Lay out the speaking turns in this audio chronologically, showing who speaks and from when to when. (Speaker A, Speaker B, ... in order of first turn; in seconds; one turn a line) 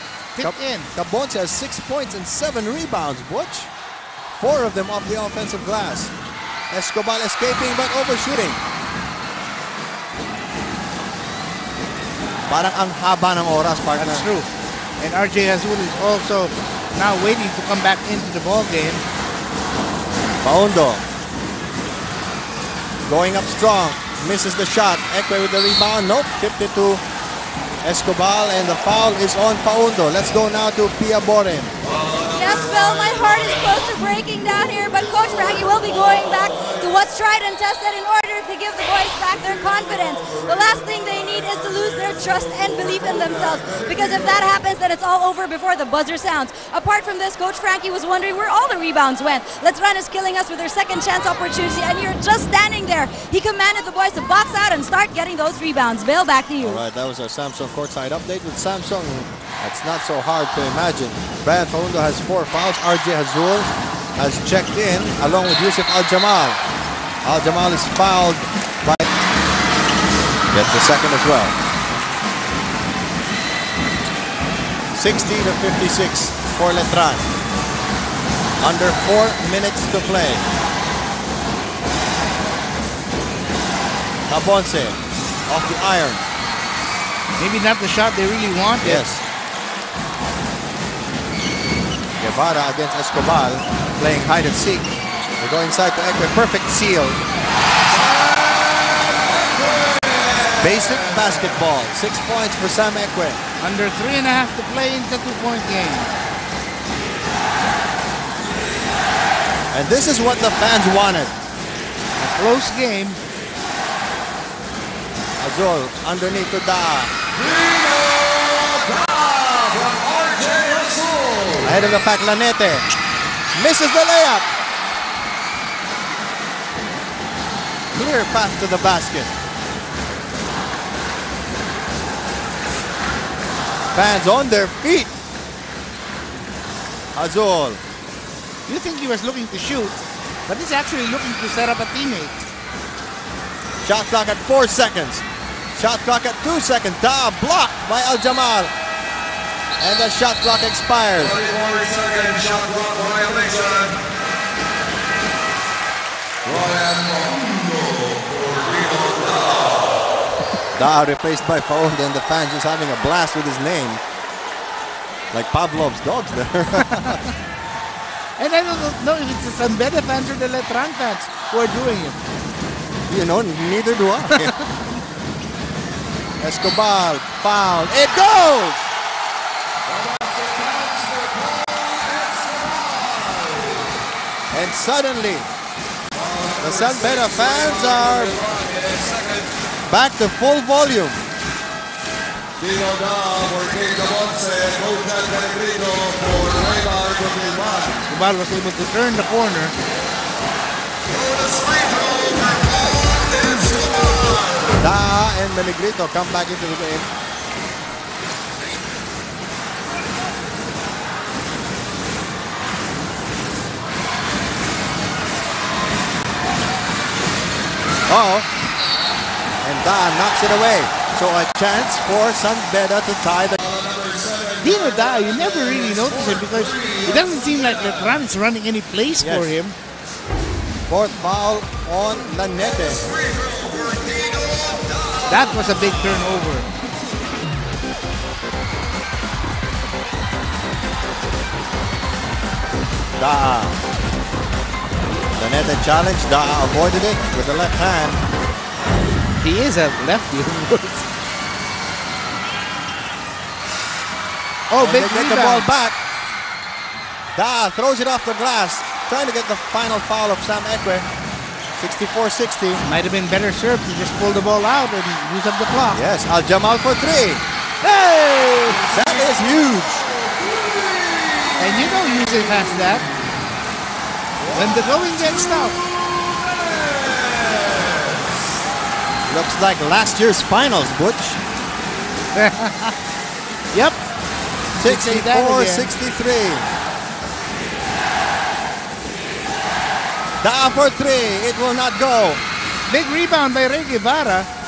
Speaker A: 0.3-0.9
Speaker B: 0.4-3.7
Speaker B: 4.4-6.1
Speaker B: 6.7-8.6
Speaker B: 12.5-14.3
Speaker A: 14.0-14.5
Speaker A: 15.0-19.0
Speaker B: 20.4-21.1
Speaker B: 23.1-27.0
Speaker B: 27.8-31.7
Speaker C: 32.1-56.8
Speaker B: 56.6-66.6
Speaker B: 67.2-69.1
Speaker B: 70.5-71.5
Speaker B: 74.9-77.3
Speaker B: 78.6-80.5
Speaker B: 84.3-86.2
Speaker A: 87.4-89.1
Speaker B: 88.8-89.2
Speaker B: 92.2-97.2
Speaker D: 98.1-100.5
Speaker B: 100.6-103.4
Speaker A: 103.6-106.1
Speaker B: 109.7-111.3
Speaker A: 112.2-113.2
Speaker B: 115.4-117.1
Speaker D: 117.4-121.5
Speaker B: 121.6-122.9
Speaker B: 123.5-124.5
Speaker B: 127.9-129.3
Speaker B: 133.9-135.1
Speaker B: 137.2-137.8
Speaker A: 138.7-142.4
Speaker B: 143.8-145.2
Speaker B: 145.8-148.7
Speaker B: 149.8-151.4
Speaker D: 151.4-154.0
Speaker D: 156.5-159.7
Speaker B: 160.8-164.0
Speaker B: 165.3-167.2
Speaker A: 166.9-167.2
Speaker A: 168.4-172.2
Speaker B: 173.1-174.6
Speaker B: 176.4-178.8
Speaker D: 179.9-183.8
Speaker B: 184.5-185.5
Speaker D: 186.2-186.7
Speaker B: 186.6-188.4
Speaker D: 188.4-189.4
Speaker B: 189.9-191.2
Speaker D: 192.6-197.9
Speaker A: 198.1-199.8
Speaker D: 201.2-204.1
Speaker B: 204.8-207.1
Speaker B: 218.1-218.5
Speaker B: 219.6-223.8
Speaker A: 224.6-229.8
Speaker B: 229.2-229.5
Speaker B: 230.9-233.1
Speaker A: 235.3-236.7
Speaker B: 243.2-243.8
Speaker B: 245.4-248.2
Speaker A: 249.4-251.1
Speaker A: 254.7-255.7
Speaker B: 254.8-256.0
Speaker B: 257.4-261.1
Speaker B: 261.8-262.8
Speaker A: 262.8-266.0
Speaker B: 265.9-267.4
Speaker A: 267.8-268.9
Speaker B: 268.9-270.1
Speaker A: 271.6-273.1
Speaker A: 274.5-275.8
Speaker B: 279.3-281.4
Speaker A: 282.3-282.9
Speaker A: 283.7-284.0
Speaker A: 284.8-285.9
Speaker B: 284.8-286.7
Speaker B: 290.4-292.4
Speaker A: 292.9-294.5